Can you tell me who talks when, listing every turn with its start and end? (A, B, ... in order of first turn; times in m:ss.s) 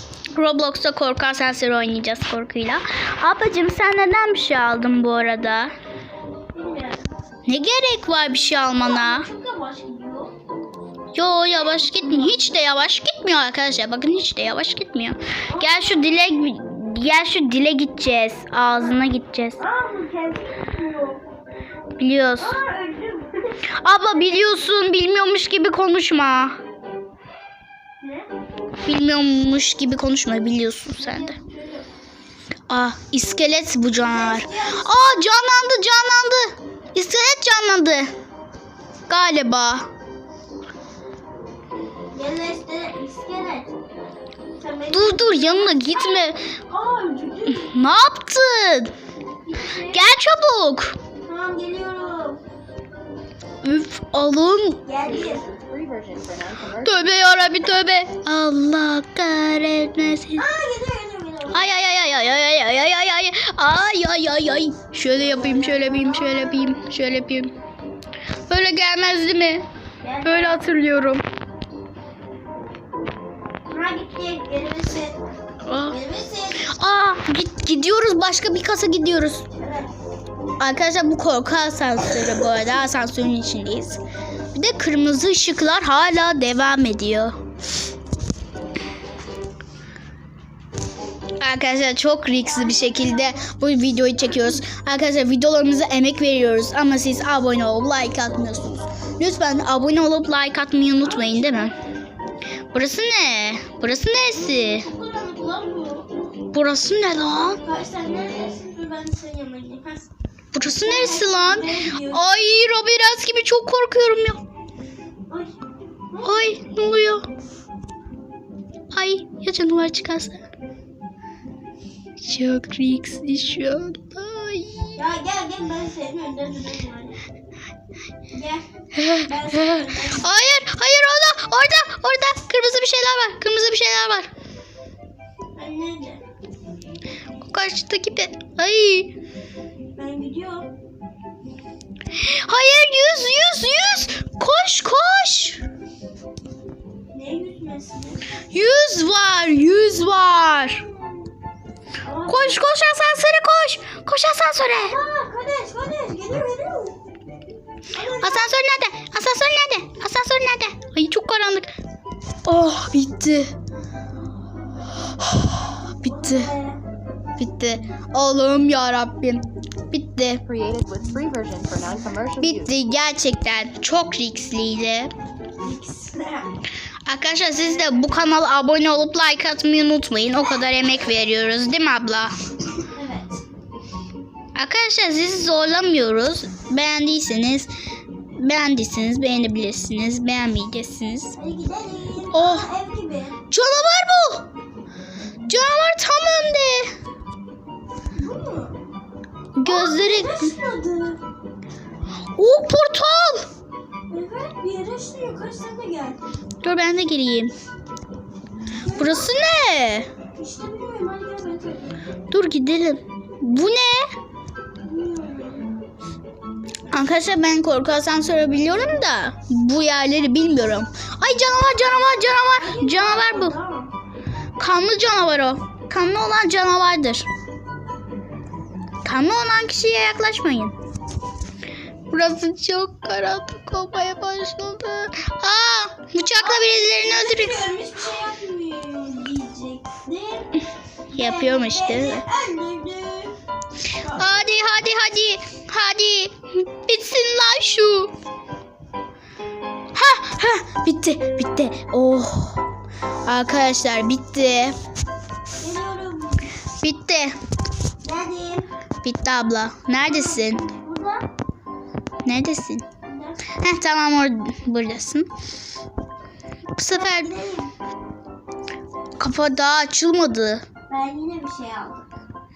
0:00.3-0:05.7 A
0:06.5-0:07.0 B
0:07.4-0:09.3 A
0:08.8-0:10.3 B
0:11.1-0:19.6 A
0:11.9-0:12.3 B
0:15.5-0:16.1 B
0:19.6-0:21.2 B
0:22.0-0:22.6 A
0:22.4-0:23.6 B
0:23.8-0:26.6 A
0:28.0-0:28.3 B
0:28.8-0:31.4 A
0:31.0-0:31.8 B
0:32.7-0:38.1 A
0:34.0-0:35.2 B
0:39.1-0:39.9 A
0:42.1-0:43.7 B
0:44.6-0:47.7 B
0:44.9-0:46.4 A
0:47.5-0:48.9 A
0:49.4-0:50.0 B
0:49.9-0:50.9 A
0:51.2-0:52.4 B
0:53.6-0:54.8 A
0:54.8-0:55.4 B
0:55.0-0:57.1 C
0:56.8-1:00.4 A
1:00.4-1:01.7 B
1:01.5-1:07.5 A
1:05.1-1:06.6 B
1:08.5-1:09.6 A
1:10.0-1:10.7 B
1:10.2-1:11.2 A
1:13.7-1:15.2 B
1:15.6-1:16.0 A
1:15.9-1:16.8 B
1:16.7-1:19.4 A
1:19.6-1:19.9 B
1:20.6-1:24.0 A
1:24.5-1:27.4 A
1:31.4-1:41.7 A
1:32.4-1:33.4 B
1:41.0-1:41.8 B
1:42.7-1:44.9 A
1:44.4-1:46.1 B
1:46.5-1:47.6 A
1:47.6-1:50.1 B
1:50.5-1:54.4 A
1:50.6-1:52.2 B
1:55.3-1:55.5 B
1:56.1-1:56.6 B
1:56.2-1:57.3 A
1:58.9-2:00.4 A
2:02.2-2:04.9 A
2:05.0-2:07.2 B
2:08.3-2:10.5 B
2:08.9-2:14.3 A
2:15.6-2:16.2 B
2:17.5-2:19.1 A
2:20.0-2:20.7 B
2:22.1-2:25.6 A
2:27.1-2:28.2 B
2:28.5-2:30.8 A
2:30.8-2:31.3 B
2:32.0-2:32.6 B
2:32.3-2:35.0 A
2:34.8-2:37.0 B
2:37.9-2:38.5 B
2:38.2-2:41.7 A
2:42.4-2:43.5 A
2:45.2-2:46.5 A
2:46.0-2:46.8 B
2:47.4-2:50.4 A
2:50.4-2:52.7 C
2:52.4-2:55.1 A
2:55.6-2:56.6 B
2:57.1-3:02.3 A
3:02.8-3:03.4 B
3:04.5-3:07.7 A
3:08.4-3:11.3 A
3:11.4-3:13.4 B
3:12.3-3:12.7 A
3:13.5-3:14.5 A
3:15.4-3:16.9 A
3:18.2-3:18.8 B
3:19.6-3:20.5 A
3:19.6-3:21.2 B
3:22.4-3:23.5 A
3:24.1-3:26.2 B
3:26.6-3:27.5 A
3:28.8-3:29.3 B
3:28.9-3:30.1 A
3:30.4-3:32.0 B
3:32.3-3:34.1 A
3:34.8-3:35.7 B
3:36.9-3:43.6 A
3:42.6-3:43.9 B
3:44.6-3:47.2 A
3:49.0-3:50.7 A
3:52.1-3:57.6 A
3:56.4-4:00.5 B
4:01.1-4:03.3 B
4:01.1-4:02.2 A
4:04.0-4:04.3 B
4:04.1-4:08.1 A
4:09.9-4:12.6 A
4:13.2-4:14.8 A
4:15.6-4:16.5 B
4:16.8-4:17.3 A
4:18.0-4:18.7 B
4:19.0-4:20.6 A
4:20.0-4:21.3 B
4:22.2-4:22.8 A
4:23.0-4:23.6 B
4:23.6-4:25.3 A
4:26.8-4:27.3 A
4:26.9-4:27.7 B
4:29.2-4:30.6 A
4:30.9-4:32.1 B